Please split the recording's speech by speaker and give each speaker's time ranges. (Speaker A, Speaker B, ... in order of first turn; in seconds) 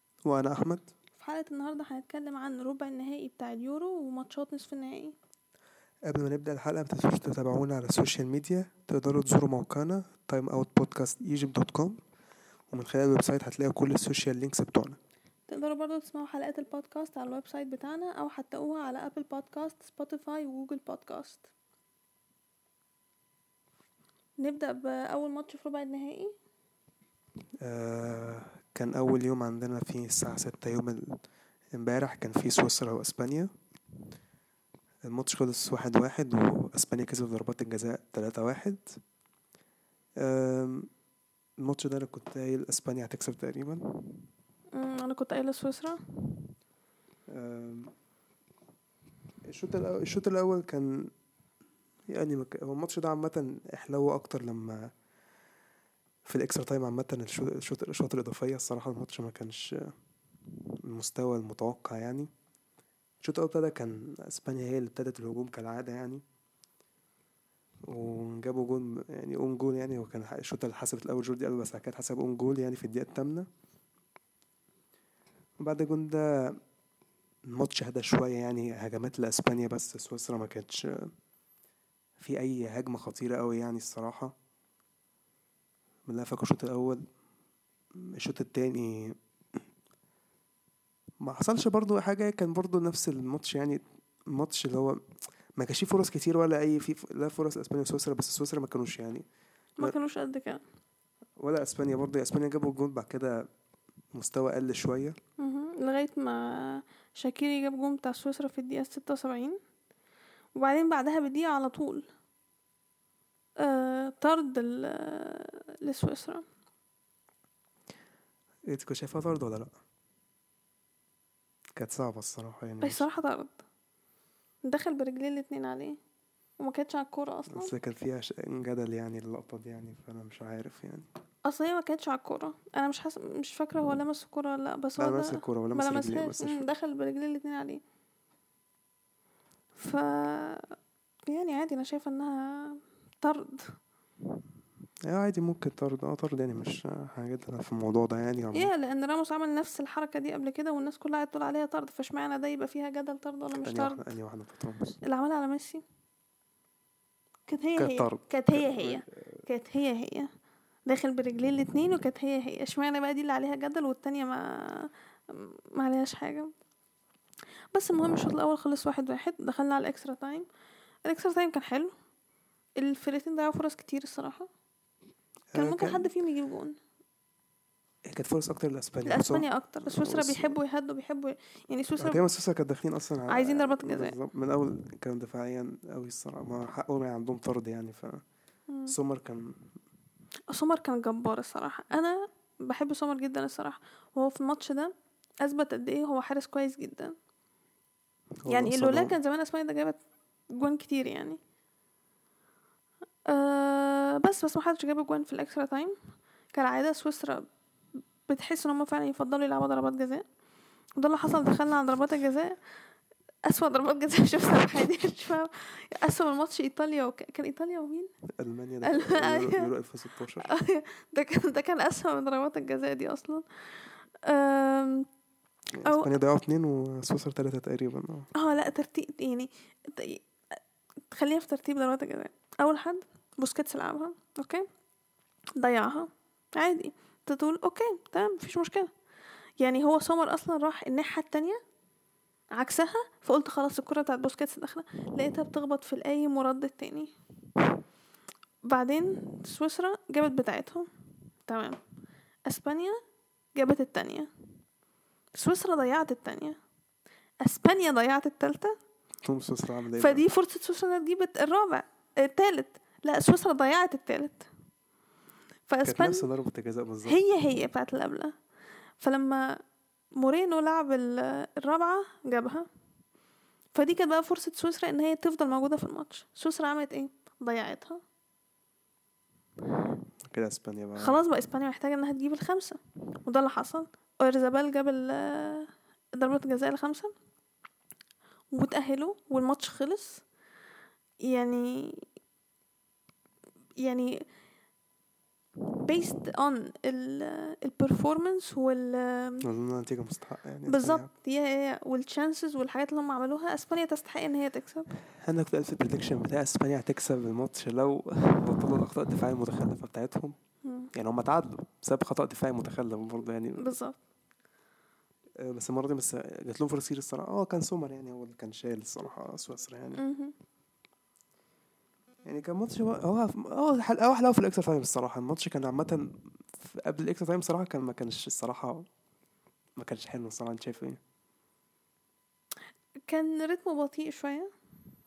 Speaker A: 0.3-0.9, 6.1-12.0, 12.7-15.0, 27.6-31.1, 31.7-33.5, 35.0-38.8, 40.2-40.9, 41.6-43.8, 47.3-47.9, 49.5-51.1, 52.1-54.9, 56.2-59.9, 60.8-62.3, 63.2-66.2, 67.9-73.5, 75.6-76.6, 77.5-81.1, 82.2-84.3, 86.1-87.0, 88.2-89.2, 91.2-95.0, 95.6-99.2, 101.4-103.4, 104.2-105.2, 118.7-119.7, 121.8-123.0, 127.5-131.1, 135.0-136.6, 145.1-148.7, 153.5-154.9, 157.8-159.4, 175.5-176.1, 178.1-180.6, 182.0-188.2, 188.9-189.6, 198.4-199.2, 218.4-220.5, 225.8-228.3, 259.2-260.2, 265.8-267.2, 280.3-281.2, 299.4-301.1, 305.2-310.4, 310.9-313.7, 315.4-320.0, 322.3-326.1, 326.6-328.9, 329.8-331.0
Speaker B: 1.2-5.2, 15.5-21.4, 24.4-26.3, 44.8-46.0, 99.8-100.6, 105.4-109.6, 110.6-112.1, 113.6-116.5, 122.8-123.6, 124.7-126.0, 126.6-127.7, 131.4-137.8, 139.8-140.8, 141.3-143.8, 148.5-154.1, 155.0-155.8, 157.5-160.3, 160.9-166.5, 167.7-170.5, 171.1-171.9, 172.8-174.5, 175.6-176.8, 179.1-182.2, 183.3-184.2, 190.5-197.2, 198.5-200.0, 200.5-201.4, 203.3-206.0, 206.6-207.5, 208.3-210.2, 211.0-212.6, 213.4-218.1, 218.8-219.7, 220.4-223.4, 224.2-225.1, 225.8-226.1, 228.3-230.2, 231.1-234.7, 235.6-238.9, 239.6-241.6, 242.5-247.1, 248.7-250.9, 251.5-251.8, 252.5-253.0, 253.6-254.3, 255.3-256.6, 257.4-258.7, 260.0-264.5, 265.7-266.3, 267.1-268.4, 269.0-269.6, 270.2-272.7, 273.8-278.0, 281.0-287.1, 288.5-290.2, 291.3-292.1, 293.8-294.2, 295.8-299.5, 300.7-304.9, 310.6-310.9, 313.6-314.0, 320.0-320.3, 333.1-334.5